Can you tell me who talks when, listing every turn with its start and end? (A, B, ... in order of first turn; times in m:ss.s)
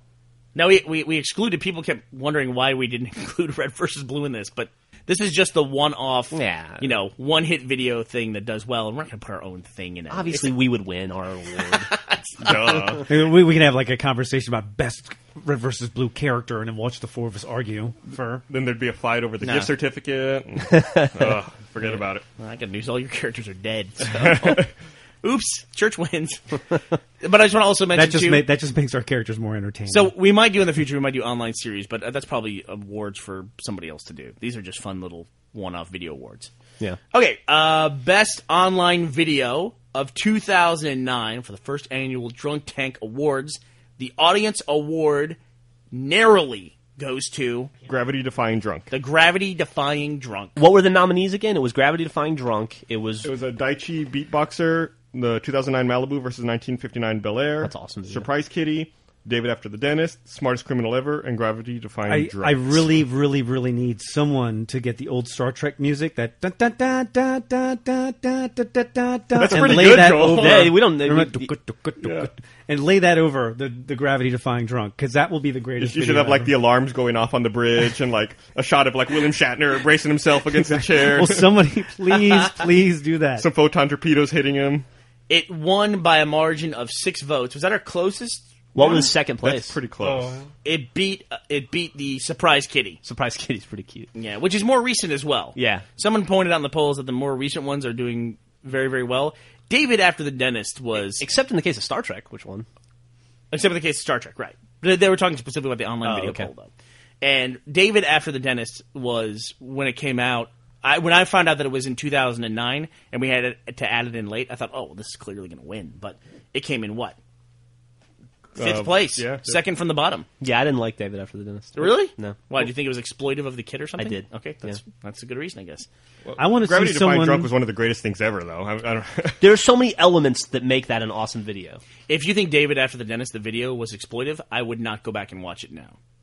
0:00.5-0:10.6 A
0:06.3-0:06.9 B
0:10.1-0:11.9 B
0:11.6-0:13.0 A
0:12.4-0:13.1 C
0:13.0-0:18.4 D
0:18.5-0:22.2 C
0:19.4-0:19.7 A
0:20.6-0:21.4 B
0:22.4-0:24.7 A
0:24.2-0:24.7 C
0:25.2-0:28.5 A
0:27.9-0:30.1 D
0:29.9-0:36.5 A
0:37.1-0:45.4 A
0:45.9-0:47.7 A
0:47.8-0:48.9 C
0:48.9-0:50.6 A
0:50.6-0:53.3 B
0:53.2-1:02.9 C
0:57.6-0:58.3 B
1:02.1-1:16.6 D
1:09.4-1:10.8 C
1:09.6-1:11.5 B
1:12.0-1:12.3 C
1:15.8-1:21.5 C
1:20.7-1:23.4 D
1:23.4-1:24.9 C
1:25.3-1:29.0 A
1:28.7-1:29.8 B
1:28.8-1:30.4 C
1:30.0-1:30.5 D
1:30.6-1:33.0 A
1:33.0-1:34.1 B
1:34.1-1:41.2 A
1:35.6-1:35.8 B
1:41.2-1:42.7 B
1:43.5-1:46.7 A
1:46.0-1:46.5 B
1:47.2-1:57.2 A
1:58.6-1:59.6 C
1:58.6-2:00.3 A
2:00.4-2:02.4 B
2:01.7-2:05.9 A
2:04.0-2:04.8 B
2:06.2-2:09.4 C
2:06.4-2:07.5 D
2:09.4-2:11.8 B
2:12.1-2:16.0 A